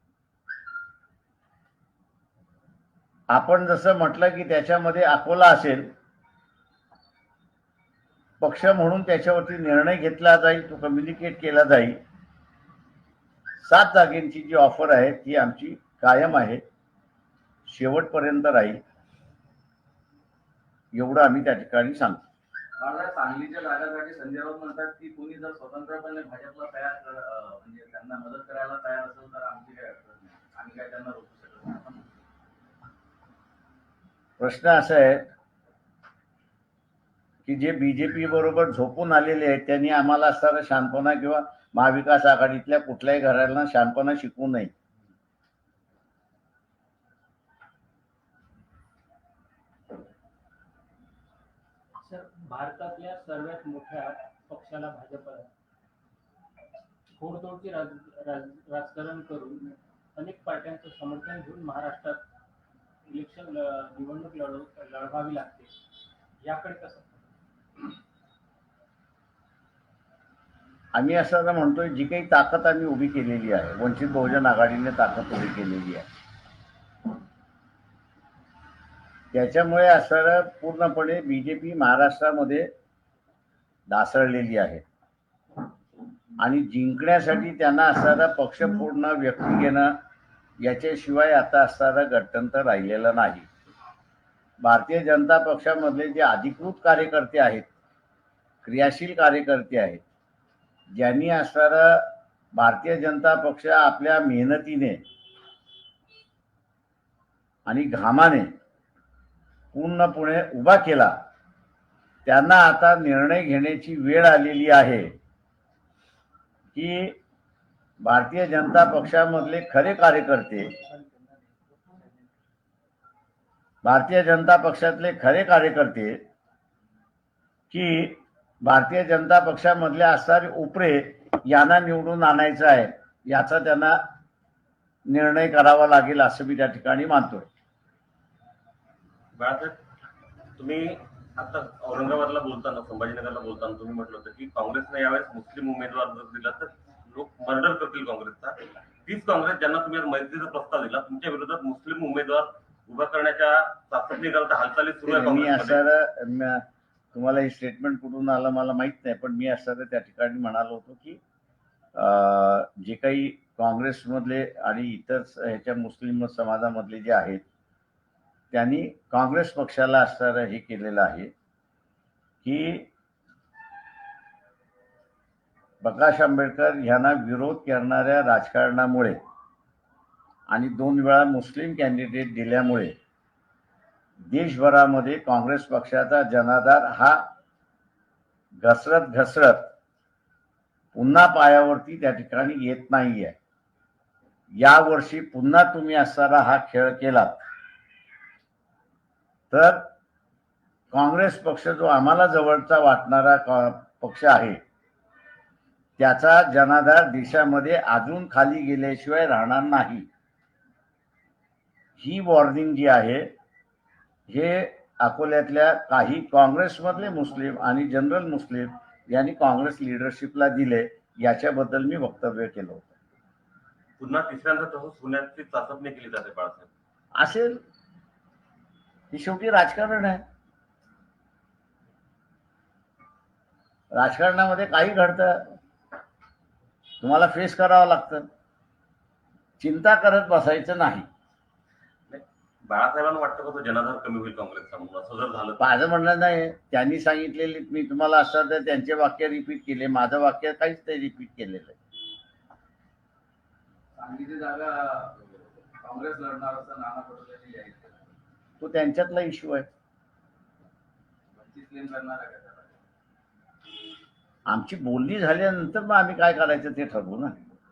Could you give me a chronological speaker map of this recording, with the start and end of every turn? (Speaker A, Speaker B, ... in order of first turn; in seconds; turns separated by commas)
Speaker A: 3.3-5.9, Speaker A: 8.4-12.0, Speaker A: 13.6-16.6, Speaker A: 17.7-18.8, Speaker A: 20.9-22.2, Speaker B: 22.8-32.1, Speaker A: 34.4-35.3, Speaker A: 37.5-44.7, Speaker C: 52.0-55.5, Speaker C: 57.2-62.2, Speaker C: 63.1-65.7, Speaker C: 66.4-67.2, Speaker A: 70.9-76.1, Speaker A: 79.3-82.7, Speaker A: 83.9-84.8, Speaker A: 86.4-90.0, Speaker A: 90.6-93.5, Speaker A: 94.6-97.7, Speaker A: 98.6-100.0, Speaker A: 100.9-105.0, Speaker A: 107.7-108.5, Speaker A: 109.7-111.2, Speaker A: 112.3-115.1, Speaker A: 116.7-117.2, Speaker A: 118.0-120.7, Speaker A: 123.8-126.2, Speaker A: 127.7-134.0, Speaker A: 135.1-137.5, Speaker D: 139.3-139.8, Speaker D: 140.6-155.8, Speaker A: 155.1-161.2, Speaker A: 161.9-167.4, Speaker A: 168.5-171.3, Speaker A: 172.4-172.9, Speaker A: 175.8-179.2, Speaker A: 180.5-182.9, Speaker A: 184.3-187.3, Speaker A: 188.6-189.7, Speaker A: 190.9-193.4, Speaker A: 194.5-197.4, Speaker A: 199.5-199.9, Speaker A: 200.9-204.6, Speaker A: 206.0-210.1, Speaker A: 212.0-213.3, Speaker A: 214.3-222.9, Speaker D: 224.0-226.7, Speaker A: 227.1-227.6, Speaker A: 229.1-230.2, Speaker A: 233.9-235.6, Speaker A: 237.0-238.3, Speaker A: 239.6-241.1, Speaker D: 242.1-245.7, Speaker A: 245.6-251.8, Speaker B: 253.9-258.1, Speaker A: 258.6-259.7, Speaker B: 261.3-262.8, Speaker A: 264.5-267.4